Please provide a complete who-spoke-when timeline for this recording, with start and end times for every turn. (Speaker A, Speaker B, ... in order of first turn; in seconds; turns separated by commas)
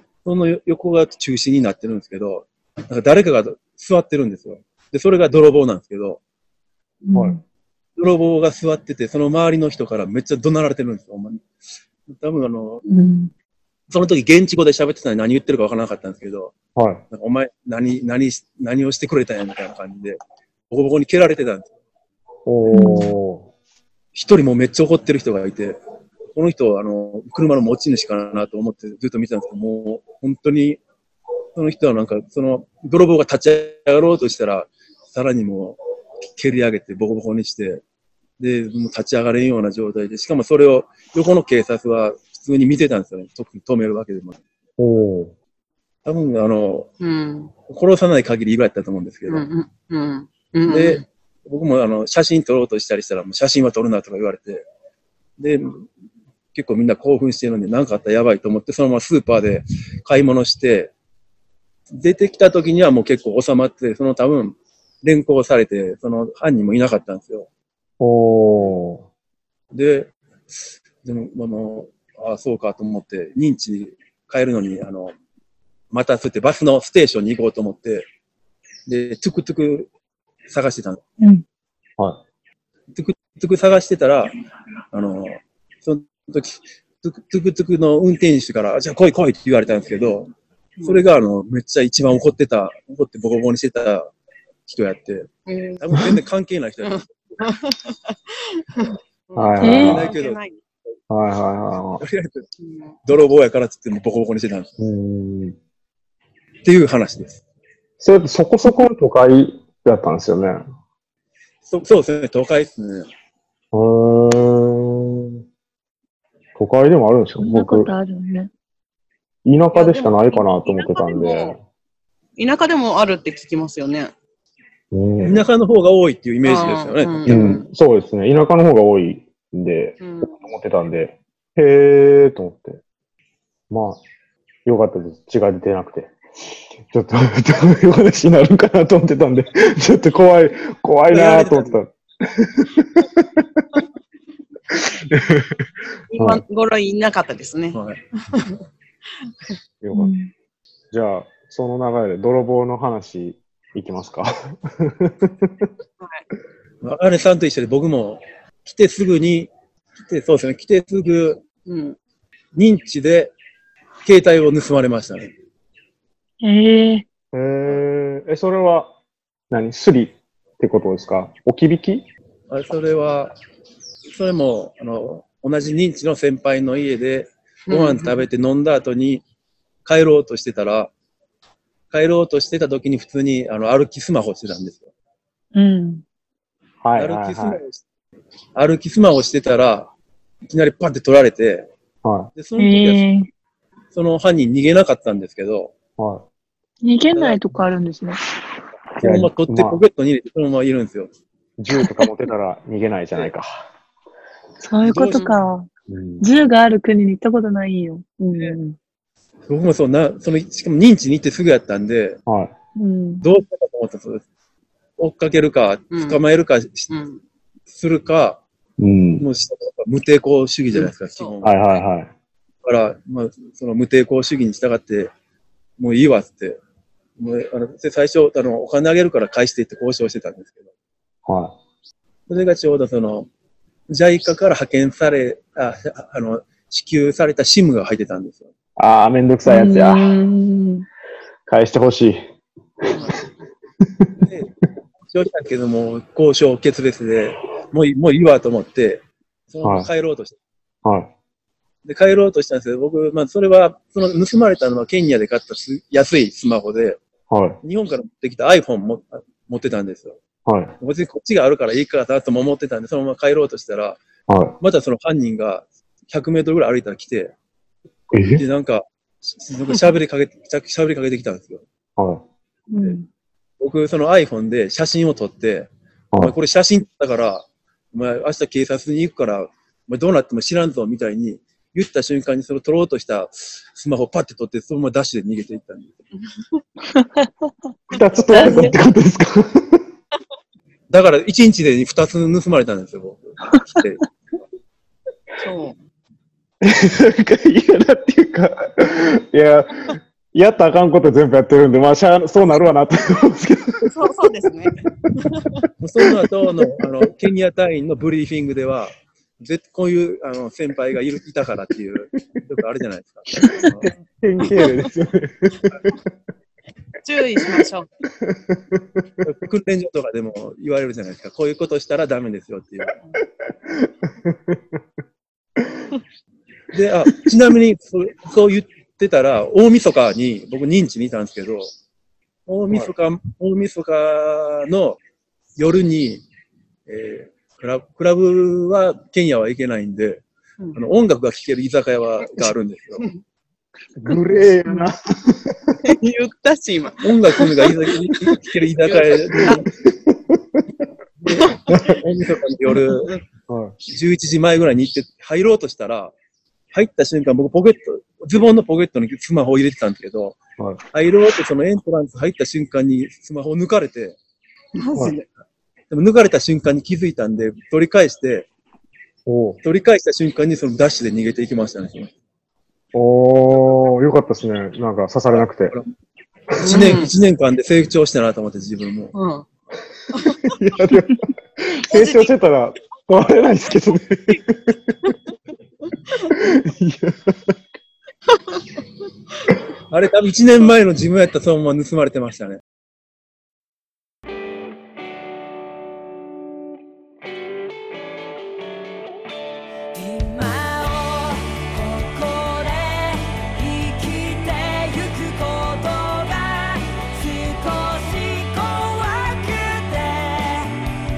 Speaker A: 0.2-6.2, Speaker B: 7.0-7.4, Speaker C: 7.1-7.4, Speaker A: 8.0-11.5, Speaker A: 12.1-12.8, Speaker B: 12.8-13.3, Speaker A: 13.9-16.5, Speaker C: 16.8-17.0, Speaker A: 17.1-20.2, Speaker A: 20.7-21.7, Speaker C: 22.4-23.5, Speaker B: 22.7-23.1, Speaker A: 24.1-25.8, Speaker A: 26.3-30.8, Speaker A: 31.6-37.8, Speaker A: 38.4-44.4, Speaker C: 44.8-45.3, Speaker A: 46.0-46.9, Speaker D: 47.0-47.5, Speaker A: 47.7-49.5, Speaker D: 49.3-51.0, Speaker A: 50.7-54.6, Speaker A: 55.4-55.9, Speaker A: 56.5-60.9, Speaker A: 61.9-67.5, Speaker C: 68.0-69.0, Speaker A: 69.7-75.1, Speaker A: 75.9-78.0, Speaker A: 78.9-79.9, Speaker A: 80.5-81.0, Speaker A: 82.9-84.3, Speaker A: 84.9-90.3, Speaker D: 90.8-91.0, Speaker A: 90.8-94.1, Speaker A: 94.7-97.4, Speaker D: 95.5-95.8, Speaker D: 96.8-100.6, Speaker C: 99.3-100.1, Speaker A: 99.6-100.4, Speaker B: 99.6-100.0, Speaker C: 101.1-102.0, Speaker A: 102.0-102.4, Speaker D: 102.6-103.0, Speaker A: 103.0-104.7, Speaker C: 104.8-105.6, Speaker A: 106.6-107.4, Speaker C: 108.0-110.6, Speaker A: 111.7-113.1, Speaker C: 113.7-115.4, Speaker C: 116.5-117.9, Speaker B: 117.4-118.5, Speaker C: 119.4-121.6, Speaker D: 119.7-121.5, Speaker D: 122.4-124.1, Speaker C: 124.9-125.4, Speaker A: 125.2-127.3, Speaker D: 126.4-127.6, Speaker C: 127.3-132.8, Speaker D: 130.0-130.4, Speaker C: 133.7-134.0, Speaker C: 134.6-136.1, Speaker C: 136.8-143.8, Speaker A: 141.1-141.8, Speaker C: 145.0-145.6, Speaker D: 146.1-147.8, Speaker C: 146.2-146.4, Speaker A: 147.7-148.0, Speaker D: 148.3-148.6, Speaker C: 149.8-150.1, Speaker B: 149.9-150.3, Speaker C: 150.9-155.7, Speaker A: 156.8-159.5, Speaker A: 160.0-161.4, Speaker D: 161.7-161.9, Speaker A: 162.5-163.3, Speaker A: 164.0-165.3, Speaker B: 166.4-167.0, Speaker C: 167.3-168.9, Speaker C: 169.5-172.1, Speaker A: 172.5-173.3, Speaker A: 174.1-179.2, Speaker D: 177.7-178.2, Speaker A: 179.8-180.9, Speaker A: 181.9-184.9, Speaker B: 185.5-186.0, Speaker C: 186.8-187.6, Speaker A: 186.9-187.8, Speaker A: 188.6-189.9, Speaker A: 190.5-191.7, Speaker C: 192.0-192.3, Speaker A: 192.3-193.0, Speaker B: 192.6-193.3, Speaker A: 193.9-195.7, Speaker C: 196.0-196.2, Speaker B: 196.8-198.2, Speaker A: 197.1-197.4, Speaker A: 199.0-201.1, Speaker C: 199.0-199.8, Speaker C: 201.6-203.5, Speaker B: 201.7-202.1, Speaker B: 204.6-205.7, Speaker A: 204.8-205.3, Speaker D: 205.1-205.4, Speaker C: 205.9-206.3, Speaker B: 206.2-208.8, Speaker A: 209.5-212.2, Speaker C: 212.3-212.5, Speaker B: 212.8-213.3, Speaker A: 213.2-214.2, Speaker A: 215.0-216.9, Speaker D: 215.9-216.2, Speaker D: 216.9-217.2, Speaker A: 217.7-218.4, Speaker C: 218.8-219.2, Speaker A: 219.2-221.7, Speaker D: 220.7-221.8, Speaker C: 221.4-222.1, Speaker A: 222.6-225.1, Speaker A: 225.8-226.6, Speaker A: 227.2-230.6, Speaker C: 231.2-231.6, Speaker A: 232.3-233.3, Speaker A: 233.9-238.5, Speaker C: 238.8-240.1, Speaker B: 239.5-240.8, Speaker C: 241.5-242.2, Speaker D: 242.9-243.2, Speaker A: 244.2-250.3, Speaker C: 249.6-249.9, Speaker C: 250.8-251.1, Speaker A: 251.8-257.0, Speaker C: 257.3-257.6, Speaker A: 257.6-260.2, Speaker C: 260.4-260.7, Speaker A: 260.8-264.0, Speaker C: 264.3-264.5, Speaker A: 264.6-267.3, Speaker C: 268.1-268.4, Speaker A: 268.3-271.6, Speaker C: 272.0-272.2, Speaker B: 272.7-273.1, Speaker A: 273.6-285.9, Speaker B: 286.9-287.3, Speaker C: 287.9-289.8, Speaker B: 288.3-288.8, Speaker A: 288.4-288.7, Speaker A: 290.9-294.0, Speaker D: 295.4-295.7, Speaker C: 296.6-304.1, Speaker D: 303.8-305.6, Speaker A: 305.8-313.9, Speaker C: 313.4-316.0, Speaker D: 314.4-314.9, Speaker D: 317.0-317.9, Speaker C: 317.4-317.6, Speaker C: 318.2-319.2, Speaker A: 319.2-322.9, Speaker C: 323.6-324.8, Speaker C: 325.6-325.9, Speaker A: 326.7-331.7, Speaker A: 332.5-335.0, Speaker A: 335.6-336.2, Speaker A: 336.9-340.2, Speaker A: 340.7-343.1, Speaker C: 344.0-345.8, Speaker D: 345.8-347.7, Speaker A: 347.0-349.7, Speaker D: 348.9-349.6, Speaker C: 349.8-350.6, Speaker A: 351.2-353.1, Speaker C: 351.7-351.9, Speaker D: 352.9-353.2, Speaker C: 353.5-353.7, Speaker A: 353.9-356.1, Speaker A: 356.7-360.4, Speaker A: 360.9-364.2, Speaker D: 364.7-365.2, Speaker A: 365.9-368.5, Speaker C: 369.2-369.6, Speaker A: 369.6-372.1, Speaker C: 372.9-375.7, Speaker A: 375.3-375.9, Speaker D: 376.6-377.1, Speaker A: 376.6-379.1, Speaker D: 379.1-379.4, Speaker D: 380.1-380.6, Speaker C: 380.4-385.1, Speaker B: 380.9-381.2, Speaker D: 381.8-382.3, Speaker D: 383.9-384.4, Speaker C: 386.3-387.6, Speaker D: 388.3-388.6, Speaker A: 389.9-392.6, Speaker E: 399.9-410.7